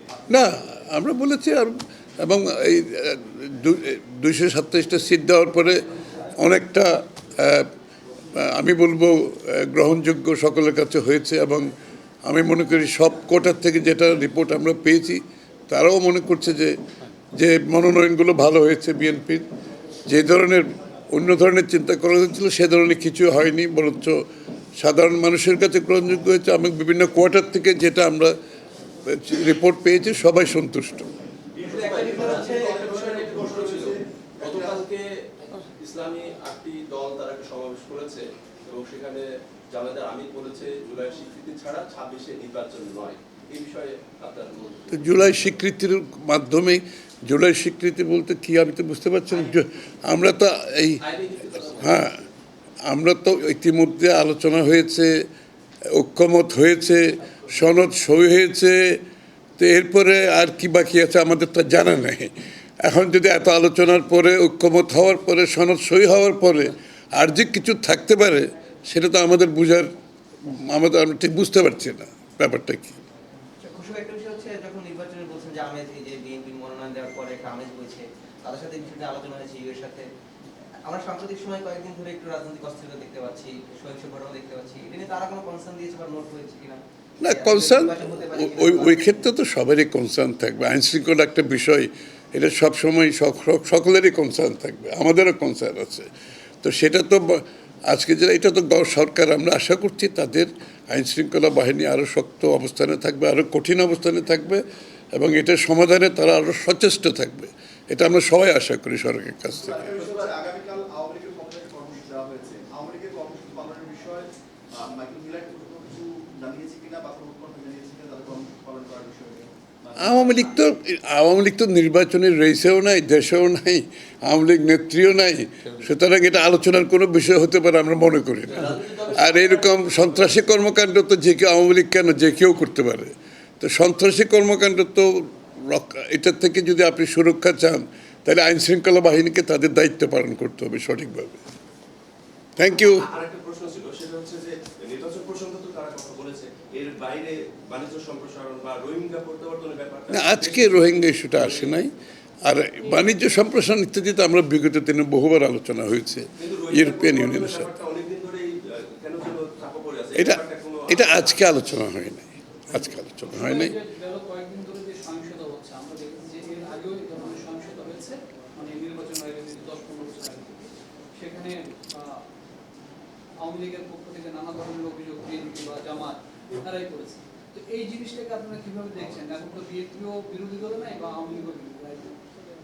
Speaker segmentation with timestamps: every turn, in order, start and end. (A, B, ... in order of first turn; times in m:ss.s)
0:00.3-0:07.7 A
0:08.3-0:16.8 A
0:17.3-0:19.5 A
0:20.0-0:24.2 A
0:24.8-0:28.3 A
0:29.0-0:31.1 A
0:31.6-0:35.0 B
0:31.6-0:34.8 C
0:31.8-0:32.6 D
0:35.8-0:45.0 B
0:44.9-0:51.0 A
0:51.0-0:52.0 B
0:51.8-0:52.2 A
0:52.8-0:55.3 A
0:55.9-0:59.0 A
0:59.6-1:13.0 A
1:13.6-1:20.1 D
1:20.8-1:29.2 D
1:27.2-1:36.1 A
1:36.6-1:50.0 A
1:49.5-2:00.4 C
2:00.0-2:21.4 A
2:08.5-2:10.3 B
2:22.6-2:23.0 A
2:22.7-2:31.8 B
2:30.1-2:37.7 A
2:36.4-2:41.4 B
2:40.1-2:43.8 A
2:43.3-2:52.2 E
2:53.4-3:02.2 E